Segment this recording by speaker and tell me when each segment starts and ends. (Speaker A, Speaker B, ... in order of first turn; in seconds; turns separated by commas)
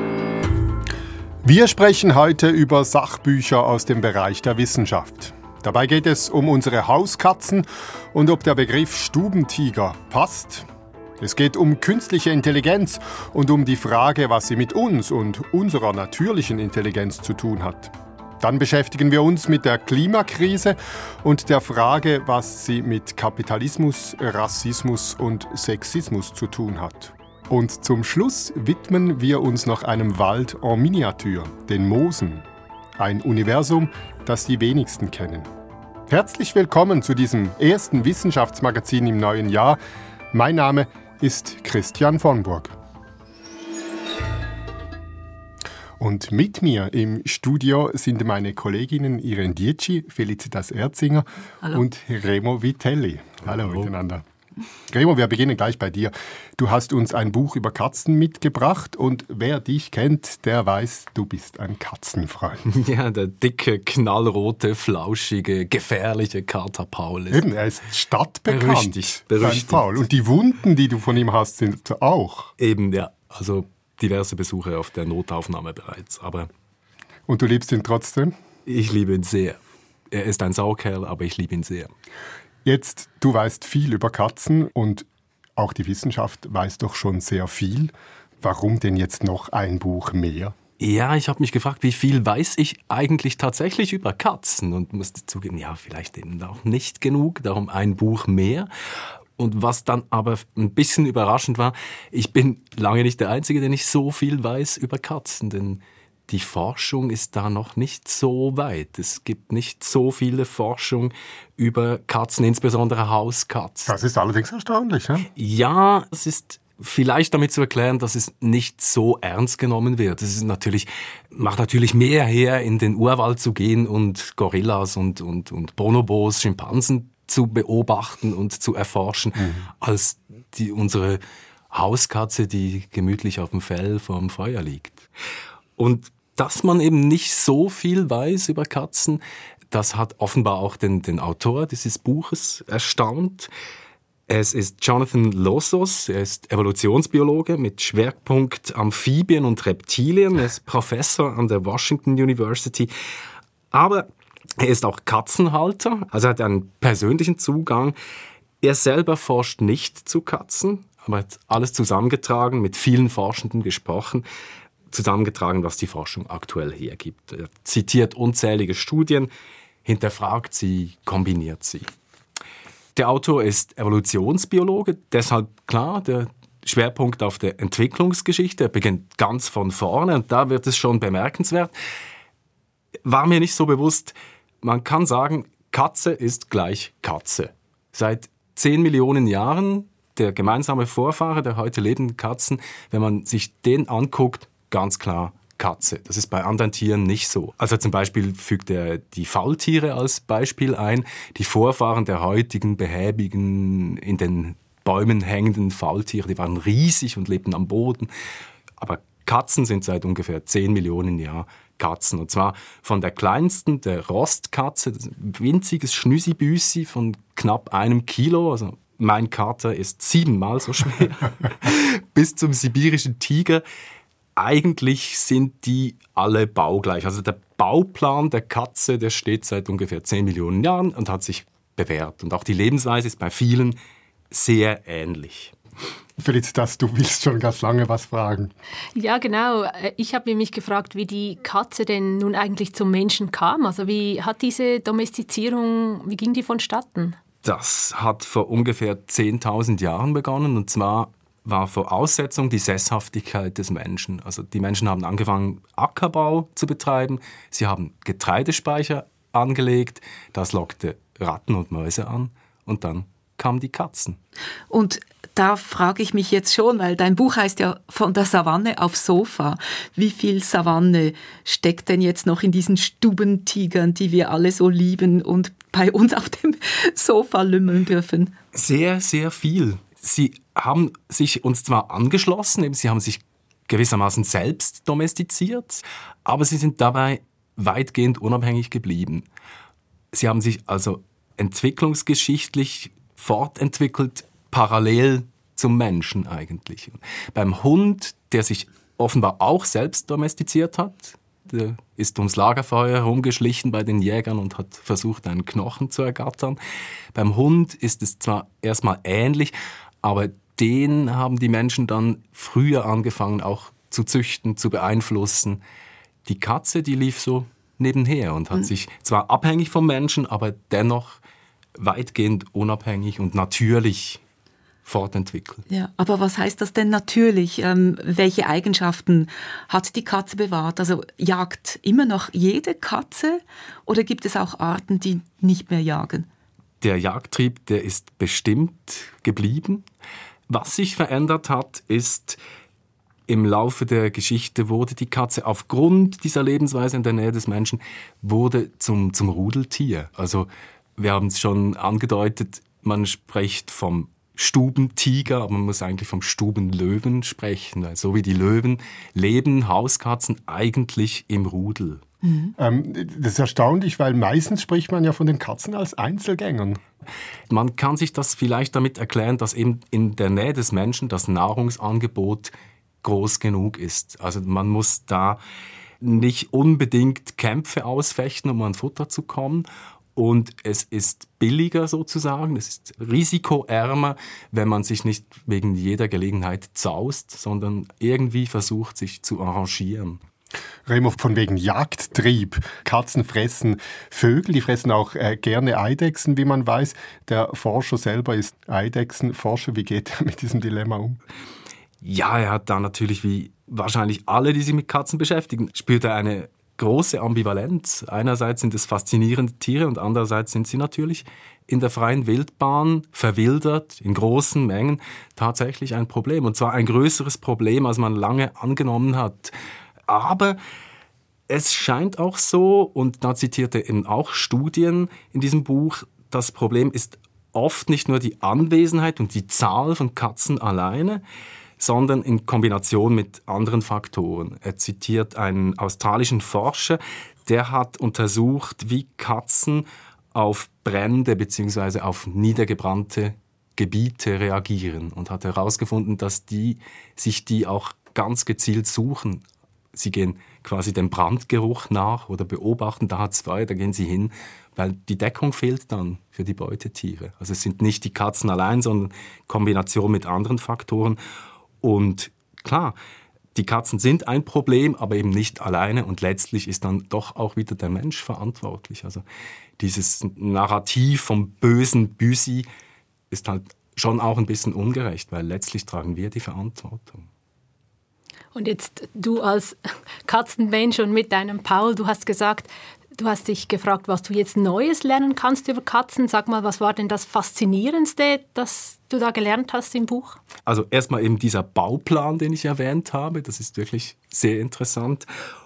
Speaker A: 1.4-10.7, Speaker A: 11.2-32.5, Speaker A: 33.0-35.5, Speaker A: 36.1-39.8, Speaker A: 40.3-42.7, Speaker A: 46.0-54.2, Speaker A: 54.9-62.6, Speaker B: 62.7-67.5, Speaker A: 67.3-72.5, Speaker B: 68.5-70.0, Speaker B: 72.6-76.5, Speaker A: 77.3-78.3, Speaker B: 78.7-79.6, Speaker B: 80.1-81.9, Speaker A: 82.6-90.5, Speaker B: 90.8-98.7, Speaker B: 99.4-113.9, Speaker A: 113.9-115.3, Speaker B: 115.3-135.0, Speaker B: 135.8-139.2, Speaker B: 139.7-143.5, Speaker B: 144.3-152.9, Speaker B: 153.7-157.9, Speaker B: 158.6-164.2, Speaker B: 164.9-169.3, Speaker B: 169.8-171.9, Speaker B: 172.9-181.7, Speaker B: 183.0-208.1, Speaker B: 208.8-223.6, Speaker B: 224.3-233.8, Speaker B: 234.3-235.5, Speaker A: 236.2-238.5, Speaker C: 238.9-247.2, Speaker B: 247.4-264.2, Speaker D: 264.7-278.3, Speaker B: 278.5-289.2, Speaker B: 290.1-306.6, Speaker B: 307.1-315.6, Speaker B: 316.2-321.2, Speaker B: 321.8-324.2, Speaker B: 324.9-325.6, Speaker D: 325.7-336.3, Speaker B: 336.8-339.9, Speaker B: 340.5-342.4, Speaker B: 343.3-362.0, Speaker D: 362.2-362.5, Speaker A: 362.6-366.8, Speaker B: 367.5-375.4, Speaker B: 376.0-390.2, Speaker A: 390.9-401.2, Speaker B: 402.0-419.5, Speaker B: 420.1-420.6, Speaker B: 421.5-431.2, Speaker B: 431.8-449.4, Speaker B: 449.9-461.2, Speaker B: 461.8-462.9, Speaker B: 463.5-469.2, Speaker B: 469.8-472.7, Speaker B: 473.3-477.2, Speaker C: 478.5-490.4, Speaker B: 490.6-495.3